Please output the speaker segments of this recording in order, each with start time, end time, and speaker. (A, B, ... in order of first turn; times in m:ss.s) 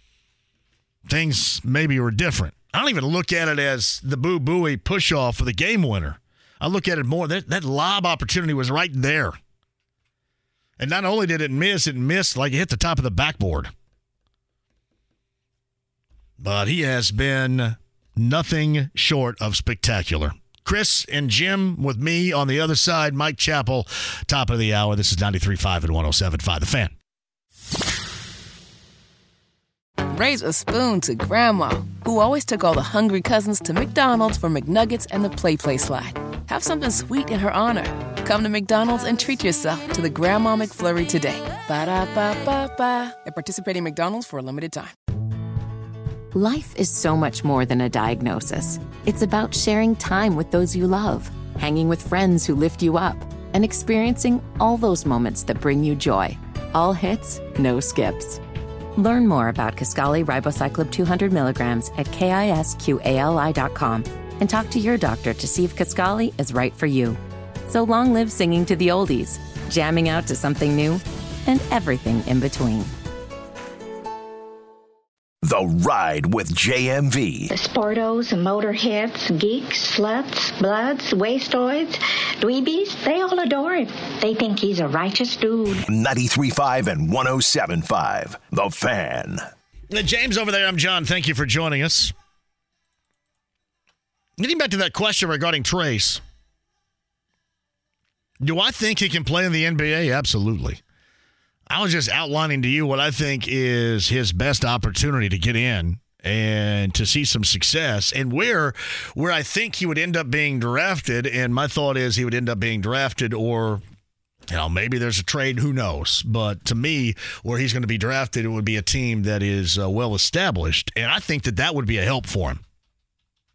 0:01.1-0:09.4 A
0:10.8-0:13.7 A
0:16.4-0:26.9 A
0:30.1-0:44.9 B
0:46.3-0:58.4 C
0:59.0-1:12.9 C
1:15.4-1:17.5 D
1:17.5-1:25.8 E
1:25.9-1:29.4 D
1:29.9-1:32.1 A
1:34.4-1:36.2 A
1:38.4-1:40.8 A
1:41.7-1:53.8 A
1:54.5-2:02.6 A